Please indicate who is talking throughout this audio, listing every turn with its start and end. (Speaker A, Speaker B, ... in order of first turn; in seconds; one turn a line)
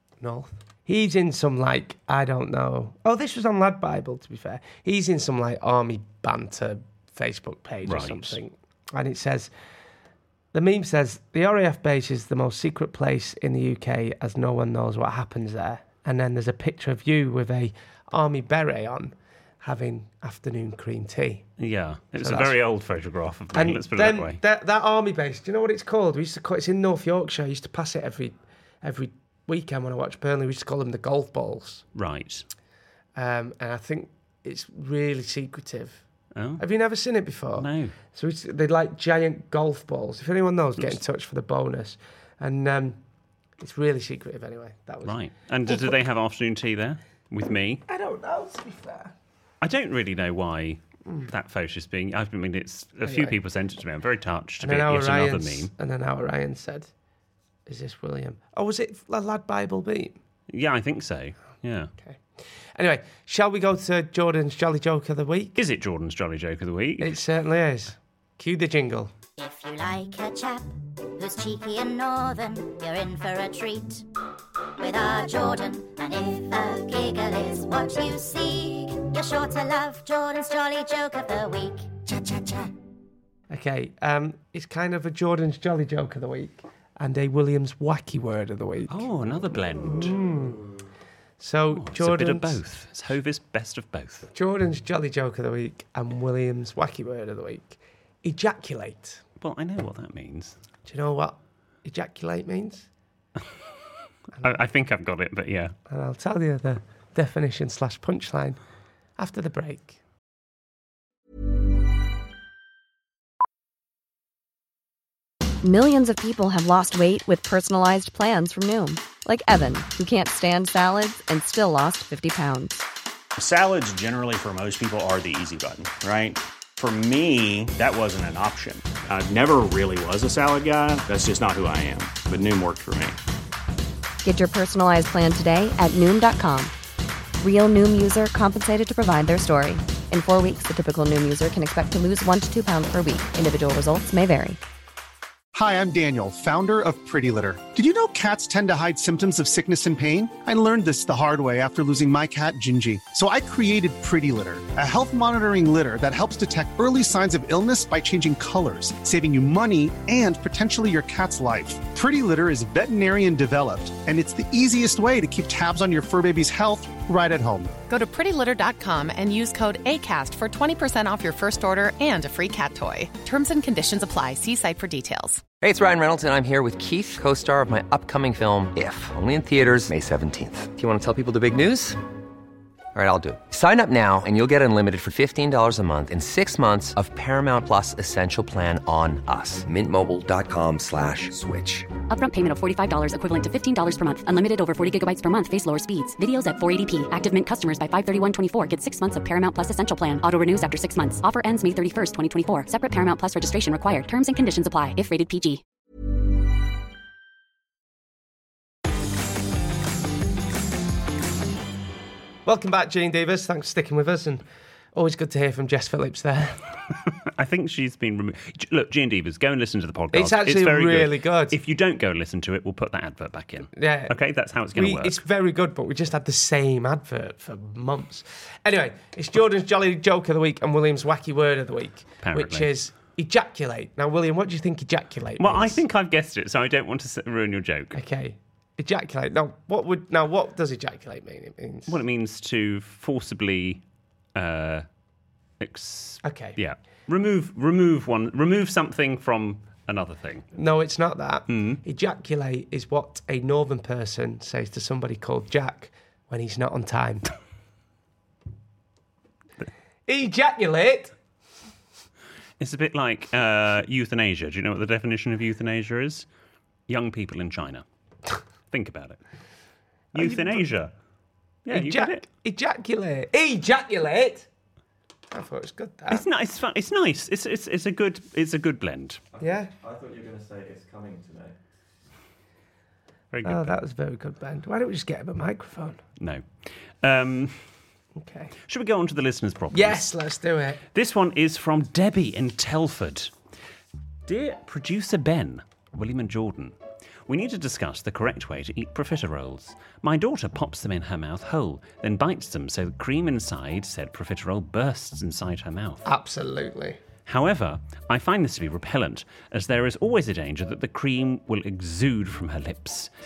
Speaker A: 0.2-9.5
Speaker B: 7.8-8.4
Speaker A: 10.5-21.5
Speaker B: 21.6-24.4
Speaker A: 22.2-22.6
Speaker A: 23.5-31.8
Speaker B: 31.9-32.5
Speaker A: 33.1-36.0
Speaker B: 36.3-36.6
Speaker A: 36.6-43.0
Speaker B: 37.5-38.0
Speaker A: 43.6-46.0
Speaker B: 45.0-47.8
Speaker A: 47.9-49.1
Speaker B: 49.6-55.7
Speaker A: 53.0-53.4
Speaker A: 54.6-56.9
Speaker A: 57.6-60.2
Speaker B: 60.5-61.9
Speaker A: 62.0-62.2
Speaker A: 62.7-65.6
Speaker B: 65.5-67.2
Speaker A: 67.0-69.1
Speaker C: 69.4-74.0
Speaker C: 74.8-81.9
Speaker A: 82.2-82.7
Speaker A: 83.5-89.1
Speaker B: 88.9-90.2
Speaker A: 89.9-90.7
Speaker A: 91.4-92.6
Speaker B: 91.7-94.3
Speaker A: 94.3-99.2
Speaker B: 99.4-100.6
Speaker A: 100.8-102.9
Speaker B: 104.3-105.7
Speaker A: 105.9-108.6
Speaker A: 109.2-110.0
Speaker D: 115.6-122.8
Speaker E: 123.3-133.2
Speaker D: 134.2-136.7
Speaker D: 137.4-144.6
Speaker F: 145.5-167.7
Speaker G: 167.9-175.4
Speaker H: 175.6-182.0
Speaker H: 182.9-191.9
Speaker I: 192.1-205.6
Speaker A: 212.4-216.6
Speaker B: 217.3-225.2
Speaker A: 220.1-221.6
Speaker A: 223.7-224.2
Speaker A: 224.7-235.8
Speaker B: 232.2-232.7
Speaker B: 235.4-238.0
Speaker A: 237.9-242.0
Speaker B: 241.9-243.8
Speaker B: 244.3-244.8
Speaker B: 245.6-250.5
Speaker A: 246.2-246.6
Speaker A: 250.5-257.3
Speaker B: 251.5-251.8
Speaker A: 260.1-261.1
Speaker B: 262.6-266.2
Speaker B: 266.9-267.8
Speaker B: 268.7-269.2
Speaker B: 270.1-270.9
Speaker A: 270.1-270.7
Speaker B: 271.6-272.2
Speaker A: 271.7-274.5
Speaker A: 275.3-276.2
Speaker B: 276.1-279.2
Speaker J: 279.3-281.6
Speaker A: 279.4-279.7
Speaker B: 283.3-283.8
Speaker A: 283.4-286.0
Speaker B: 286.2-287.6
Speaker A: 288.1-288.5
Speaker B: 288.7-290.1
Speaker A: 289.7-290.8
Speaker B: 290.9-293.3
Speaker B: 294.3-306.0
Speaker A: 306.0-307.0
Speaker B: 307.2-313.1